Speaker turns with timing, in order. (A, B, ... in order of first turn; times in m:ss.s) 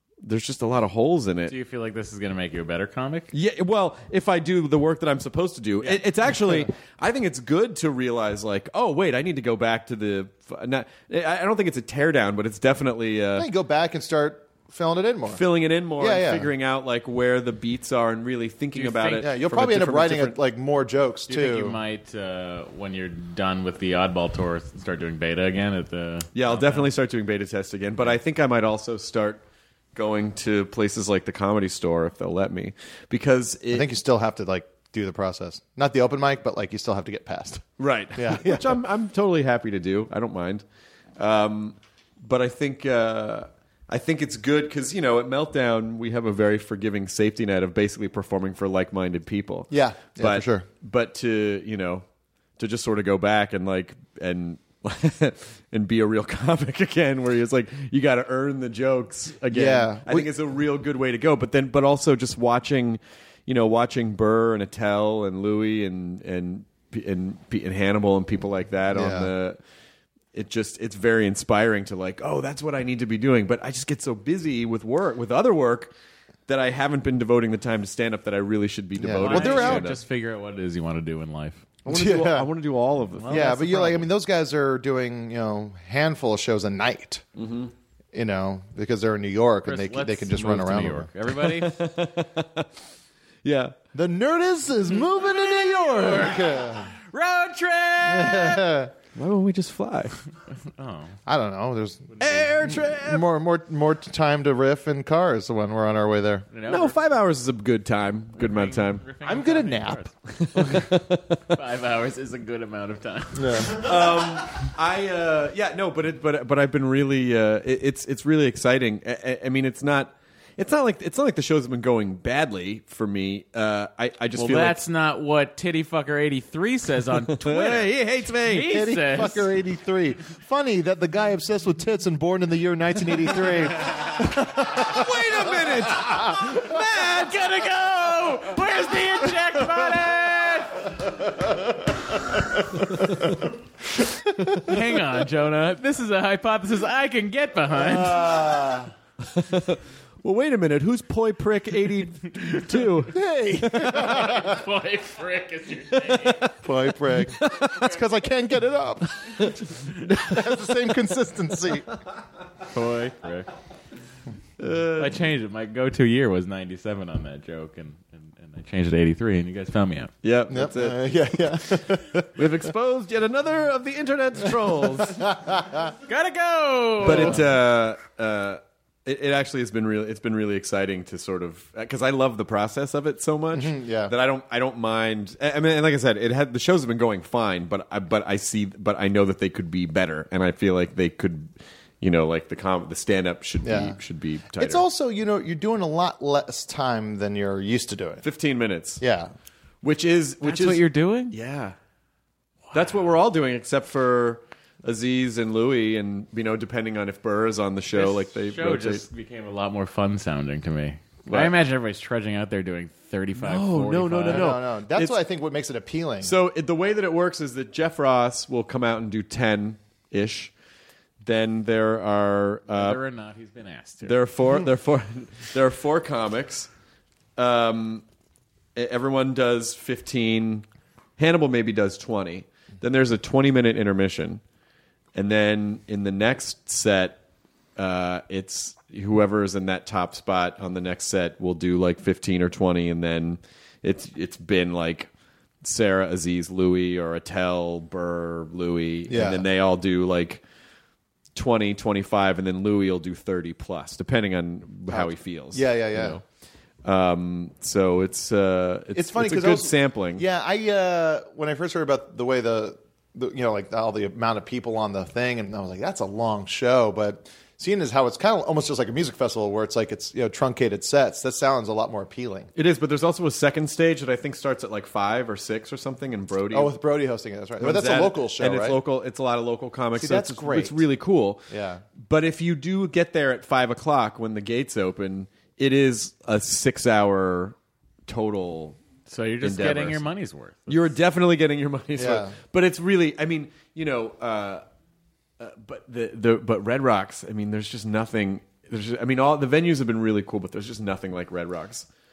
0:00.2-0:01.5 A
0:01.5-0:03.3 B
0:03.3-0:13.5 A
0:13.4-0:15.4 C
0:15.3-0:20.4 A
0:16.0-0:16.5 C
0:18.7-0:19.2 B
0:19.2-0:21.8 C
0:21.3-0:26.9 B
0:26.3-0:29.4 A
0:29.9-0:33.9 A
0:33.7-0:38.8 C
0:37.8-0:40.6 A
0:41.2-0:52.0 A
0:49.7-0:50.6 C
0:52.6-1:09.6 A
0:59.5-1:00.3 C
1:08.9-1:09.3 C
1:10.3-1:15.9 A
1:16.5-1:20.0 A
1:19.0-1:19.9 C
1:19.2-1:21.6 B
1:21.8-1:22.5 C
1:21.8-1:23.6 A
1:23.2-1:24.0 B
1:23.3-1:27.2 C
1:27.4-1:27.7 A
1:28.1-1:31.1 C
1:29.6-1:31.8 B
1:31.4-1:32.7 A
1:33.4-1:33.7 A
1:33.9-1:36.9 C
1:35.6-1:36.4 B
1:37.1-1:38.6 B
1:38.0-1:38.9 C
1:39.2-1:40.2 A
1:40.8-1:41.1 B
1:41.2-1:46.4 C
1:42.2-1:43.3 A
1:46.5-1:47.0 B
1:46.7-1:49.0 A
1:48.4-1:50.1 B
1:49.2-1:50.0 C
1:50.3-1:51.6 A
1:51.5-1:53.9 B
1:53.3-1:53.9 C
1:53.7-2:04.8 A
2:04.4-2:07.9 B
2:07.3-2:08.7 A
2:08.4-2:09.5 B
2:08.7-2:16.2 C
2:14.7-2:17.6 A
2:17.1-2:21.0 B
2:24.6-2:28.3 B
2:27.7-2:28.9 C
2:29.3-2:33.2 A
2:33.1-2:34.6 C
2:33.8-2:36.4 B
2:36.1-2:36.5 A
2:36.6-2:39.5 C
2:37.2-2:37.9 A
2:39.2-2:40.6 A
2:40.1-2:41.9 C
2:42.7-2:43.5 B
2:44.6-2:45.2 A
2:45.0-2:50.1 B
2:50.2-2:51.6 A
2:50.5-2:52.4 C
2:52.3-2:55.2 A
2:55.0-2:55.9 C
2:56.1-2:57.4 B
2:57.0-3:14.8 A
3:03.5-3:04.1 C
3:13.6-3:14.0 C
3:14.6-3:18.2 C
3:18.2-3:19.0 A
3:19.0-3:19.3 C
3:19.8-3:21.7 A
3:20.4-3:21.4 B
3:22.7-3:29.0 A
3:27.9-3:34.5 B
3:31.3-3:31.5 A
3:33.4-3:35.2 A
3:34.3-3:36.4 C
3:36.2-3:40.5 A
3:41.2-3:43.0 A
3:42.7-3:44.2 B
3:44.0-3:46.7 A
3:47.4-3:48.0 A
3:48.8-3:50.6 A
3:51.2-3:54.4 A
3:55.1-3:57.2 A
3:57.8-4:05.1 A
4:05.6-4:10.4 A
4:09.1-4:09.4 C
4:11.3-4:16.2 A
4:14.9-4:16.2 C
4:16.8-4:20.2 A
4:18.9-4:32.5 C
4:32.6-4:36.8 A
4:36.5-4:38.8 C
4:37.6-4:41.4 A
4:40.0-4:40.8 C
4:41.5-4:41.8 C
4:42.0-4:47.5 A
4:48.1-4:48.8 A
4:49.1-4:50.9 B
4:49.4-4:50.0 A
4:50.7-4:54.6 A
4:52.0-4:52.3 C
4:55.4-5:01.9 A